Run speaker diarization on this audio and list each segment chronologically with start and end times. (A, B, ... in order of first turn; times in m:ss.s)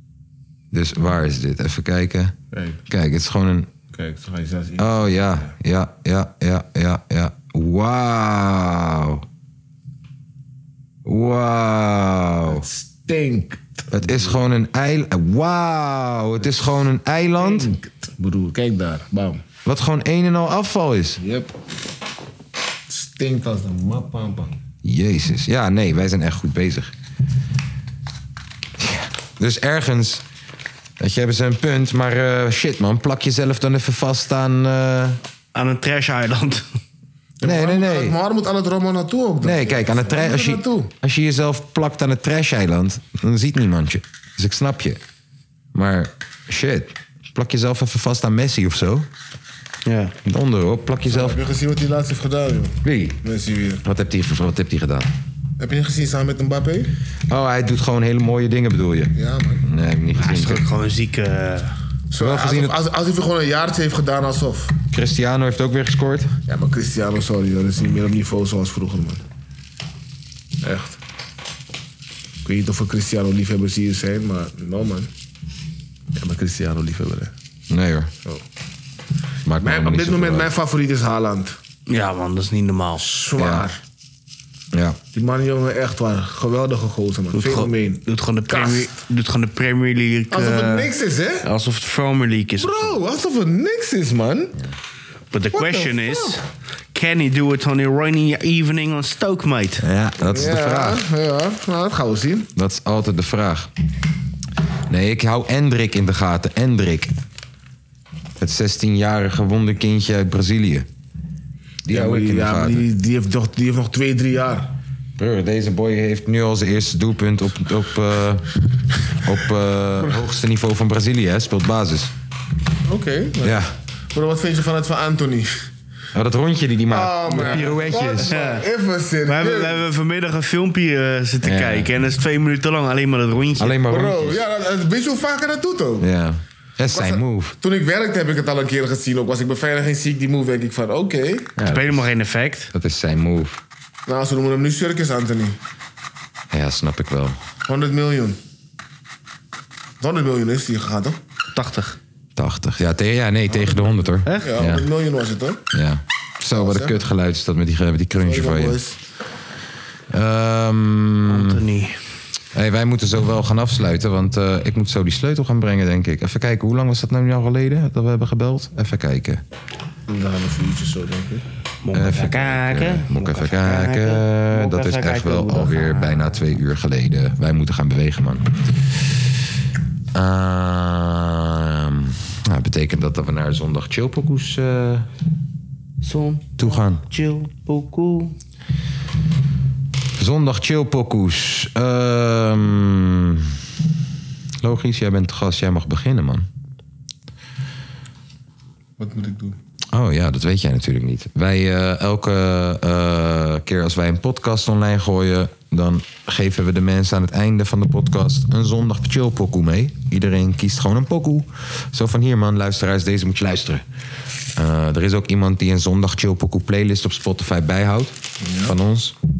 0:00.7-0:02.3 A
0:02.5-0:02.8 B
0:02.9-0:03.7 A
0:03.9-0:05.5 B
0:04.8-0:09.2 A
0:11.0-0:12.6 A
0:12.4-0:13.9 B
0:13.9-0:17.7 A
0:17.4-0:19.4 B
0:19.6-0:21.2 A
0:21.2-0:21.5 B
0:22.9-0:24.6 B
0:24.8-0:26.9 A
0:28.8-0:30.2 A
0:31.0-0:35.2 A
0:35.5-0:36.8 C
0:37.4-0:40.9 B
0:37.4-0:38.2 A
0:39.4-0:45.0 A
0:45.7-0:49.1 A
0:49.8-0:50.1 C
0:50.2-0:51.4 A
0:51.0-0:53.8 B
0:52.8-0:53.2 A
0:53.8-0:55.1 A
0:55.6-0:56.9 B
0:57.3-1:00.6 A
0:59.1-0:59.6 B
1:00.2-1:01.7 C
1:02.1-1:04.8 B
1:02.2-1:02.7 A
1:04.9-1:06.3 A
1:06.5-1:09.2 B
1:10.6-1:11.0 B
1:12.4-1:15.1 B
1:16.1-1:17.3 B
1:17.7-1:18.1 A
1:19.4-1:20.5 A
1:19.6-1:21.6 B
1:21.9-1:23.0 C
1:23.0-1:23.8 B
1:23.4-1:23.7 A
1:24.7-1:25.0 A
1:25.1-1:28.9 B
1:27.3-1:30.9 C
1:30.3-1:31.4 B
1:31.4-1:32.9 C
1:32.6-1:34.6 B
1:35.3-1:39.8 C
1:35.5-1:36.4 B
1:39.8-1:41.0 A
1:40.2-1:42.5 B
1:42.5-1:43.7 A
1:44.9-1:47.1 A
1:48.4-1:50.9 A
1:51.8-1:52.8 A
1:51.9-1:54.7 B
1:55.2-1:58.5 A
1:59.1-2:02.1 A
2:02.8-2:05.5 B
2:03.4-2:03.7 A
2:06.1-2:08.3 A
2:06.9-2:09.8 B
2:08.2-2:08.6 C
2:09.3-2:13.8 C
2:11.4-2:11.9 A
2:13.6-2:14.4 A
2:13.9-2:16.1 B
2:16.0-2:17.6 A
2:16.9-2:21.6 B
2:21.6-2:22.0 A
2:21.6-2:22.7 C
2:22.7-2:23.6 A
2:24.1-2:25.6 B
2:26.5-2:27.4 A
2:27.7-2:28.4 B
2:30.0-2:31.2 B
2:31.5-2:32.0 C
2:32.4-2:34.8 A
2:33.5-2:35.6 B
2:34.2-2:34.5 C
2:35.7-2:38.8 A
2:36.5-2:37.0 B
2:38.2-2:39.0 B
2:40.1-2:41.6 A
2:41.2-2:42.0 C
2:42.5-2:49.4 A
2:50.1-2:51.4 B
2:51.8-2:56.4 C
2:51.9-2:58.9 A
3:00.1-3:05.1 A
3:06.0-3:08.3 C
3:06.6-3:07.0 A
3:10.2-3:13.6 A
3:14.6-3:16.5 A
3:19.0-3:19.6 B
3:19.9-3:33.8 A
3:34.5-3:39.1 A
3:38.4-3:38.8 B